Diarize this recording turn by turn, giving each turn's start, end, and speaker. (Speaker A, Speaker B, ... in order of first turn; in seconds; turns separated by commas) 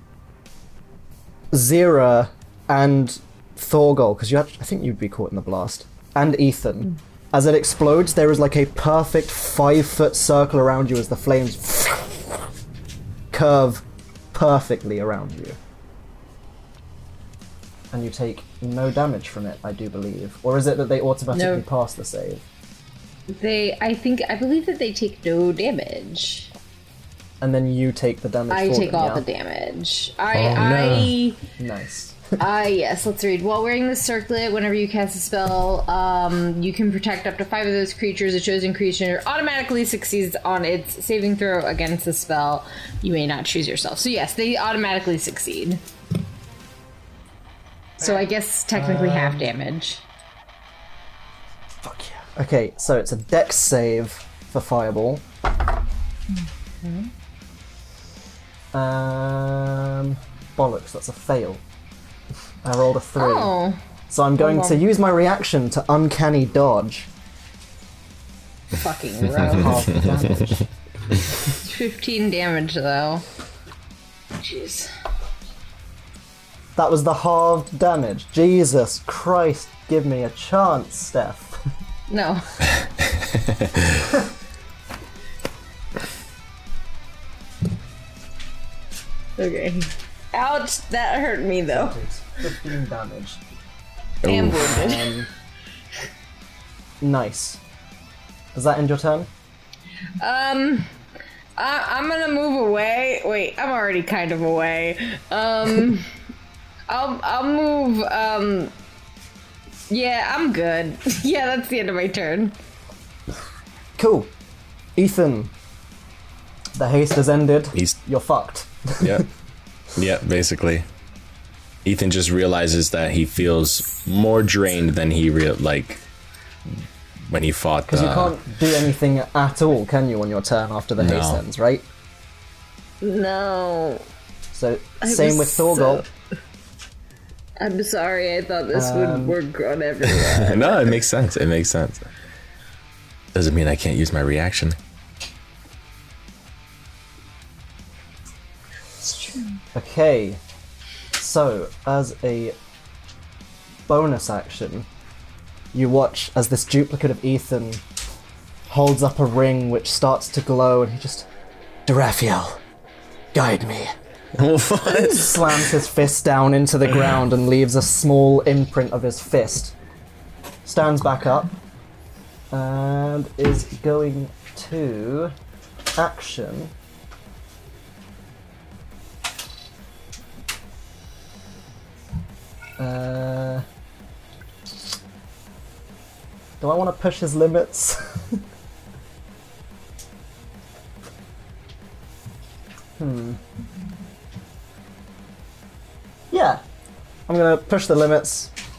Speaker A: 1.5-12.4, Speaker A: 13.3-15.6, Speaker A: 17.9-22.4, Speaker B: 21.3-21.6, Speaker B: 23.3-26.5, Speaker A: 27.4-29.2, Speaker B: 28.5-31.4, Speaker C: 30.3-31.1, Speaker A: 31.6-32.2, Speaker B: 32.4-45.8, Speaker B: 48.0-50.0, Speaker A: 48.7-49.5, Speaker A: 51.8-55.2, Speaker B: 56.8-57.1, Speaker A: 58.7-61.6, Speaker A: 62.6-63.5, Speaker B: 63.2-63.8, Speaker A: 64.1-67.1, Speaker B: 64.4-64.8, Speaker B: 68.7-69.9, Speaker A: 69.4-70.7, Speaker B: 71.5-73.2, Speaker B: 74.4-74.9, Speaker A: 76.8-81.6, Speaker B: 82.1-82.6, Speaker B: 89.4-92.0, Speaker A: 91.7-93.4, Speaker C: 94.2-94.6, Speaker B: 94.2-95.2, Speaker A: 94.5-95.3, Speaker A: 97.0-97.6, Speaker A: 98.5-99.3, Speaker B: 100.2-100.9, Speaker B: 101.6-106.1, Speaker B: 106.9-108.7, Speaker B: 109.9-112.5, Speaker A: 114.0-114.3, Speaker A: 115.0-115.5, Speaker A: 116.8-119.3, Speaker C: 119.0-119.3, Speaker C: 120.0-120.9, Speaker C: 121.8-126.0, Speaker C: 127.3-128.4, Speaker A: 127.9-131.8, Speaker C: 131.0-131.4, Speaker B: 133.0-134.0, Speaker A: 134.5-136.1, Speaker B: 135.0-136.1, Speaker B: 137.6-141.0, Speaker A: 138.7-139.4, Speaker C: 140.0-142.1, Speaker C: 143.3-144.8, Speaker B: 149.1-149.4, Speaker A: 149.7-150.4, Speaker A: 151.2-152.6, Speaker A: 153.9-154.9, Speaker A: 155.7-157.8, Speaker A: 158.7-161.3, Speaker A: 161.9-162.6, Speaker A: 163.3-163.9, Speaker C: 164.4-165.7, Speaker A: 164.8-169.7, Speaker A: 170.6-171.5, Speaker A: 172.5-175.3, Speaker A: 176.0-176.7, Speaker A: 182.8-183.6, Speaker A: 186.6-188.4, Speaker A: 193.0-193.4, Speaker A: 196.3-196.6, Speaker A: 197.3-198.5